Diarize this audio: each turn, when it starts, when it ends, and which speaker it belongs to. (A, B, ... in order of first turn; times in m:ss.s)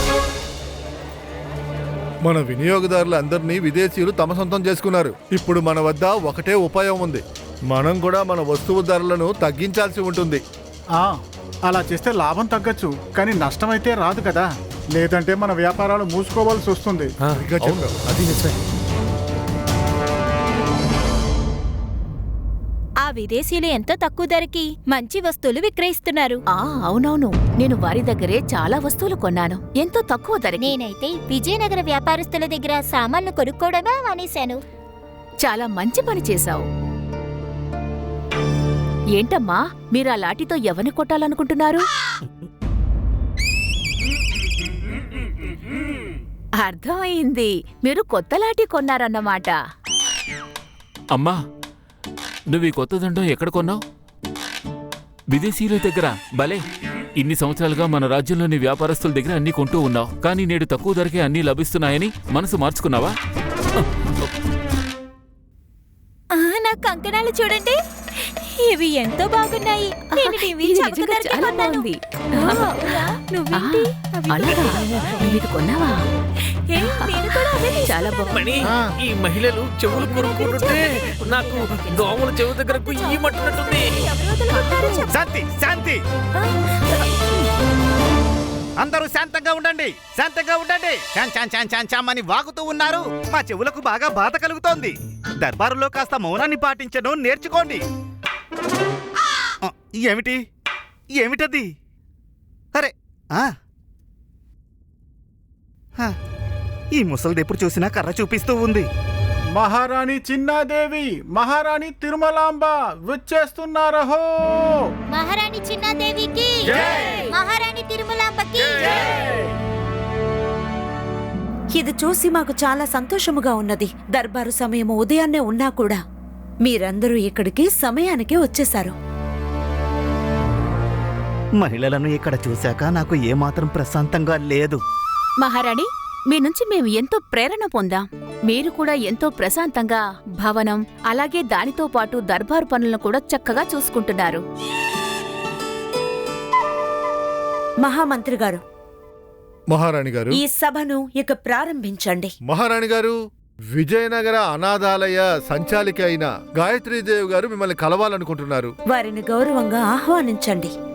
0:02.2-0:10.4 A
0:11.7-0:17.1 B
0:17.4-0:18.5 A
0:23.0-0:26.4 C
0:26.5-0:30.8 D
0:30.6-0:34.6 E
0:35.4-0:36.6 D
0:39.2-0:41.8 D
0:46.6-0:49.5 D
0:52.5-0:53.8 F
0:55.3-0:56.6 F
0:57.2-1:03.1 F
1:06.3-1:07.8 C
1:08.4-1:14.8 C
1:10.1-1:16.0 D
1:16.7-1:17.8 C
1:16.8-1:18.5 D
1:18.3-1:24.1 G
1:18.6-1:18.9 A
1:20.0-1:23.2 D
1:23.0-1:25.1 C
1:24.0-1:25.1 D
1:25.1-1:26.0 H
1:26.4-1:26.9 C
1:28.8-1:37.8 H
1:39.6-1:40.4 H
1:41.2-1:41.7 H
1:42.8-1:43.5 H
1:46.9-1:48.9 H
1:49.6-1:54.9 B
1:55.1-1:59.2 E
1:56.7-1:57.0 H
2:01.8-2:06.0 I
2:06.6-2:08.9 I
2:11.6-2:14.8 H
2:15.4-2:24.4 D
2:27.8-2:28.6 I
2:29.7-2:30.4 A
2:30.3-2:32.3 I
2:32.4-2:33.1 A
2:33.8-2:38.7 A
2:38.9-2:40.7 I